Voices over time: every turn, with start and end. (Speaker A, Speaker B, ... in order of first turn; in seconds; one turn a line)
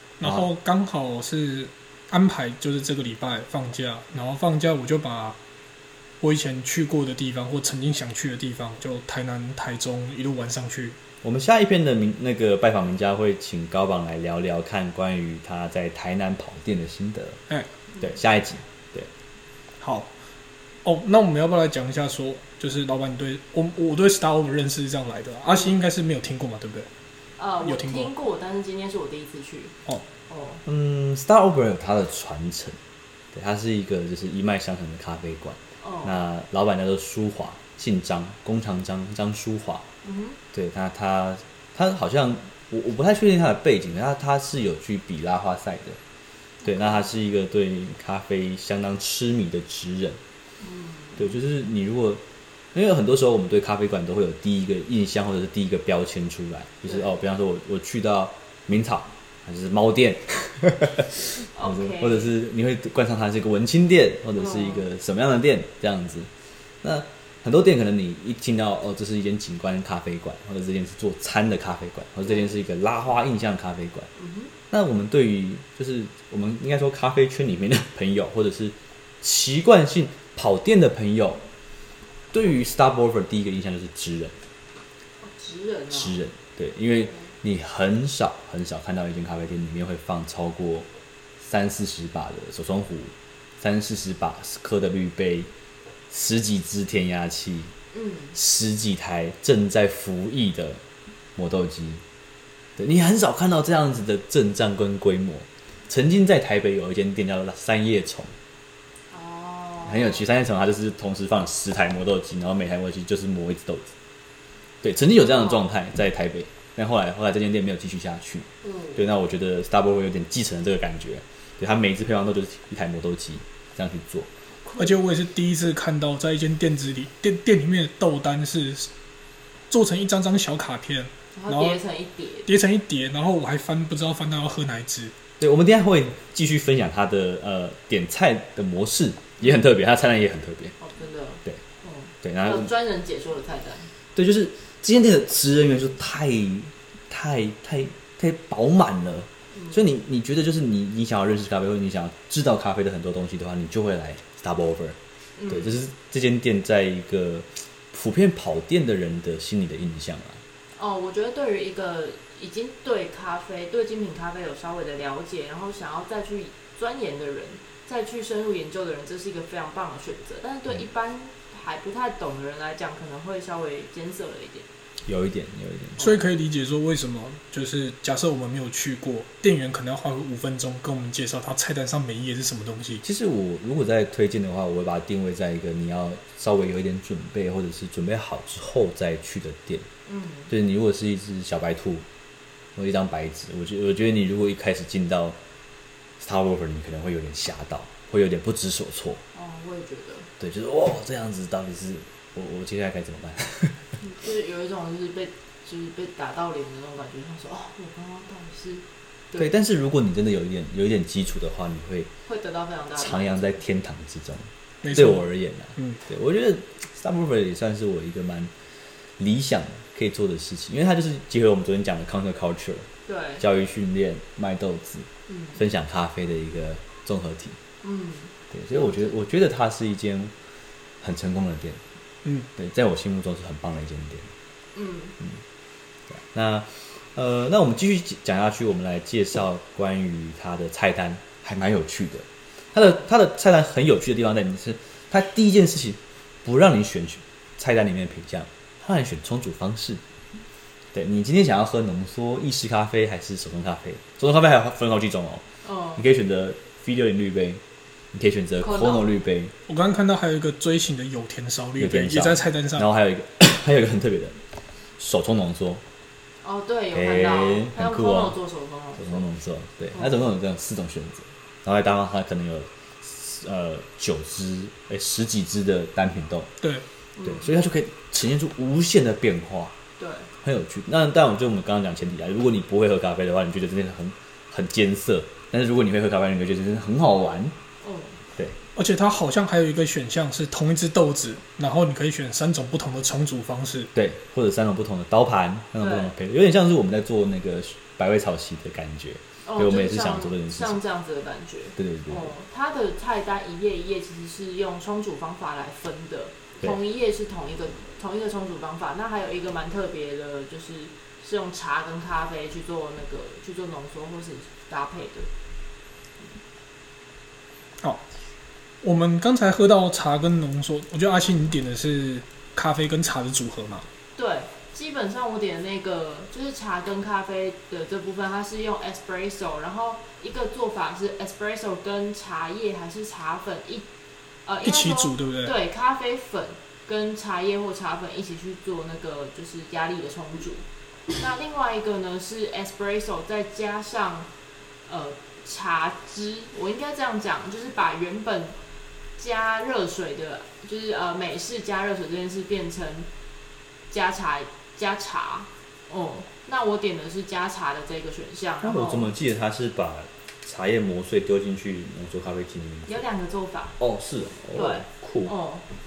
Speaker A: 0.2-5.4
Speaker B: 0.2-0.5
Speaker A: 6.2-10.9
Speaker B: 11.2-17.4
Speaker B: 18.0-19.1
Speaker A: 19.8-20.1
Speaker A: 20.8-26.9
Speaker C: 27.4-29.7
Speaker A: 27.6-28.1
Speaker C: 30.3-30.6
Speaker B: 30.6-32.8
Speaker B: 33.3-39.8
Speaker C: 35.8-36.1
Speaker C: 40.0-40.4
Speaker B: 40.5-46.0
Speaker C: 46.6-47.1
Speaker B: 46.6-50.2
Speaker C: 50.6-51.4
Speaker B: 51.2-52.2
Speaker B: 52.7-66.3
Speaker C: 56.9-57.1
Speaker C: 61.5-62.3
Speaker C: 64.4-64.8
Speaker B: 66.8-74.1
Speaker C: 74.2-74.5
Speaker B: 74.7-81.4
Speaker B: 82.3-84.3
Speaker C: 85.2-86.2
Speaker B: 85.9-90.9
Speaker B: 91.4-95.5
Speaker B: 96.1-97.7
Speaker C: 97.9-98.3
Speaker B: 98.3-100.8
Speaker B: 101.4-102.0
Speaker B: 102.8-108.3
Speaker C: 109.1-110.2
Speaker B: 109.8-113.9
Speaker B: 114.8-124.3
Speaker C: 115.2-115.7
Speaker C: 118.6-119.0
Speaker C: 124.6-125.0
Speaker A: 124.8-128.9
Speaker A: 129.7-131.8
Speaker C: 131.3-132.5
Speaker A: 132.4-135.1
Speaker B: 135.4-140.7
Speaker C: 140.8-143.9
Speaker B: 142.2-142.7
Speaker B: 144.1-155.0
Speaker C: 149.5-149.8
Speaker C: 155.4-155.8
Speaker B: 155.5-160.4
Speaker C: 160.8-174.7
Speaker B: 175.1-176.1
Speaker A: 176.0-183.0
Speaker B: 183.0-189.9
Speaker C: 190.1-190.5
Speaker B: 190.5-192.0
Speaker B: 192.8-195.4
Speaker B: 196.2-199.2
Speaker C: 199.3-200.3
Speaker B: 200.4-203.9
Speaker C: 204.0-209.5
Speaker B: 209.3-212.1
Speaker C: 212.2-213.4
Speaker B: 212.9-218.5
Speaker A: 214.8-216.0
Speaker B: 219.2-222.9
Speaker C: 223.1-223.4
Speaker B: 223.4-227.6
Speaker C: 225.3-225.6
Speaker C: 227.8-229.1
Speaker B: 228.5-230.3
Speaker B: 231.0-231.8
Speaker B: 232.6-234.3
Speaker C: 234.7-235.2
Speaker B: 236.3-250.0
Speaker B: 250.9-255.4
Speaker C: 255.6-256.0
Speaker B: 256.0-257.6
Speaker B: 258.1-259.5
Speaker C: 258.6-259.1
Speaker A: 259.7-262.9
Speaker B: 261.8-264.4
Speaker B: 265.0-265.8
Speaker C: 266.4-269.2
Speaker B: 266.9-268.4
Speaker B: 269.0-276.5
Speaker C: 269.9-270.2
Speaker C: 277.2-277.5
Speaker B: 277.2-279.7
Speaker C: 280.0-280.3
Speaker B: 280.4-287.6
Speaker C: 287.8-288.2
Speaker A: 288.7-293.9
Speaker B: 293.9-300.8
Speaker C: 295.8-296.1
Speaker C: 299.4-315.3
Speaker B: 301.8-302.3
Speaker A: 318.8-323.9
Speaker C: 324.1-333.9
Speaker C: 334.4-344.3
Speaker A: 334.6-335.5
Speaker C: 344.9-348.6
Speaker C: 349.2-353.1
Speaker C: 353.9-359.2
Speaker B: 358.6-363.0
Speaker C: 362.9-363.8
Speaker B: 363.8-365.3
Speaker C: 364.5-365.7